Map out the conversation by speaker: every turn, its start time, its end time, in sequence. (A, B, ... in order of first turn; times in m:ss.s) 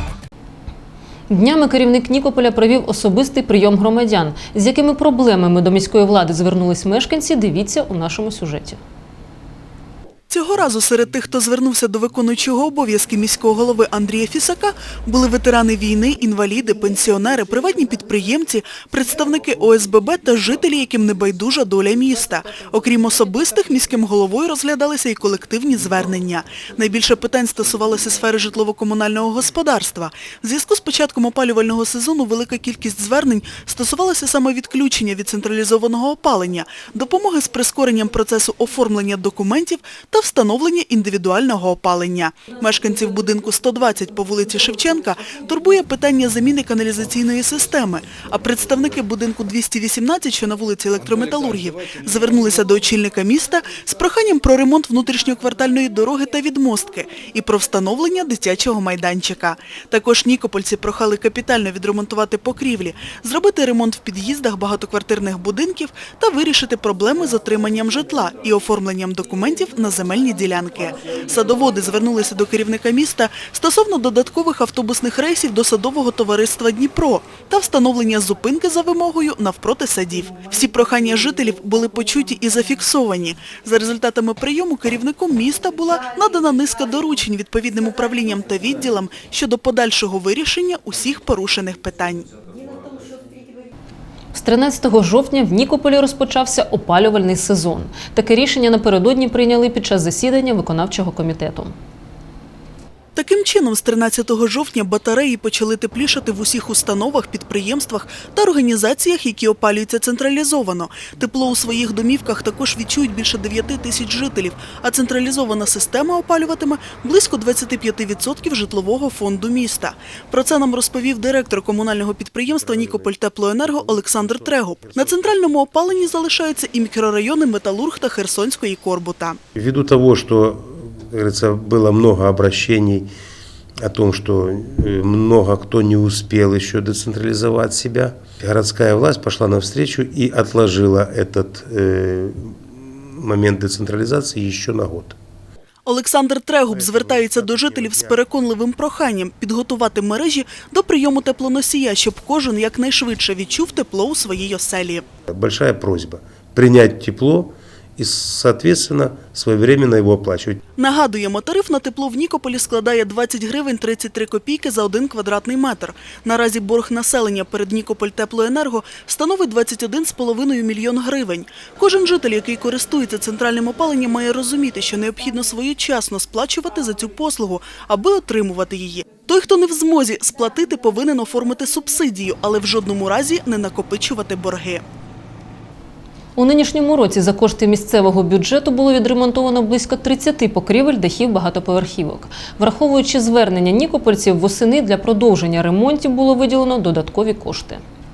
0:01.3-0:08.8 A
0:10.3-1:32.3 B
1:34.3-1:41.7 A
1:43.2-2:09.4 B
2:02.5-2:05.5 C
2:09.6-2:13.1 C
2:13.8-2:25.2 C
2:25.9-2:35.1 B
2:26.7-2:28.3 C
2:35.3-2:40.6 C
2:40.8-3:04.8 B
3:06.4-3:17.8 A